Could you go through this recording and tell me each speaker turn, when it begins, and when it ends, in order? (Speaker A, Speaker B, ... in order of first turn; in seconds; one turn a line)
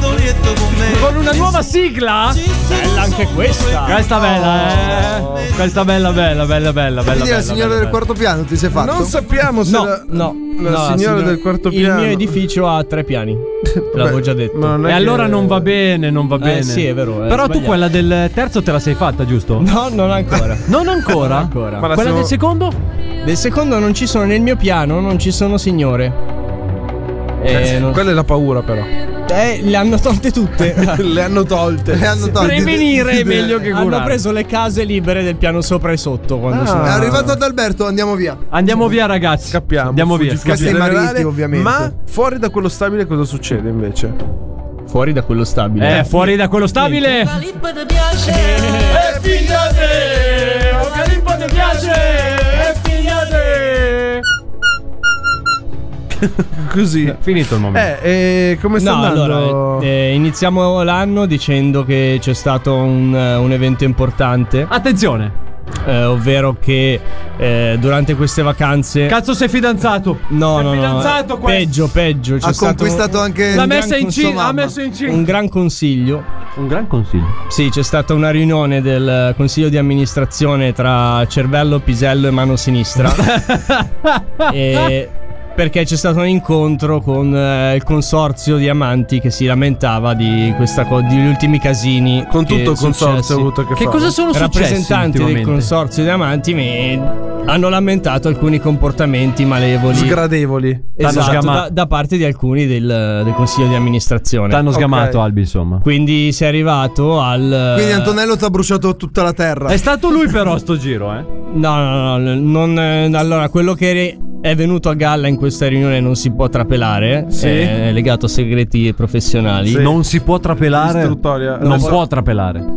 Speaker A: 0.7-2.4
Speaker B: 1.1-1.5
Speaker B: 2.5-5.0
Speaker A: 3.8-8.0
Speaker C: 4.3-5.5
Speaker D: 7.1-9.1
Speaker C: 8.7-12.4
Speaker B: 9.7-14.8
Speaker C: 13.8-15.7
Speaker A: 14.8-19.7
Speaker B: 16.4-17.8
Speaker B: 19.6-21.9
Speaker A: 20.7-22.8
Speaker C: 21.8-22.3
Speaker B: 23.2-26.2
Speaker B: 27.4-28.0
Speaker C: 27.5-28.9
Speaker B: 29.3-31.1
Speaker C: 30.7-33.2
Speaker D: 31.9-33.0
Speaker A: 32.3-34.2
Speaker B: 33.2-37.3
Speaker C: 36.5-37.4
Speaker D: 36.8-38.4
Speaker A: 38.5-40.8
Speaker C: 39.5-44.2
Speaker D: 40.5-41.9
Speaker B: 44.9-47.3
Speaker A: 45.8-47.4
Speaker B: 48.1-49.0
Speaker A: 48.8-54.0
Speaker B: 53.0-53.9
Speaker C: 56.3-57.2
Speaker A: 57.2-57.9
Speaker C: 57.7-59.9
Speaker B: 58.8-64.7
Speaker A: 64.7-65.3
Speaker B: 65.8-69.2
Speaker A: 69.1-71.7
Speaker B: 70.3-76.3
Speaker D: 72.4-74.7
Speaker A: 73.5-75.3
Speaker A: 76.6-77.4
Speaker B: 77.5-83.4
Speaker A: 83.1-84.4
Speaker B: 84.5-93.5
Speaker C: 92.3-94.2
Speaker A: 93.8-95.7
Speaker B: 94.3-100.2
Speaker C: 99.9-101.6
Speaker B: 101.0-104.7
Speaker A: 101.0-101.7
Speaker A: 104.5-105.8
Speaker C: 104.7-105.2
Speaker B: 105.8-108.2
Speaker D: 107.7-109.8
Speaker A: 109.7-111.3
Speaker B: 111.5-119.9
Speaker C: 117.3-117.8
Speaker C: 119.7-120.0
Speaker A: 119.7-122.7
Speaker C: 120.7-122.0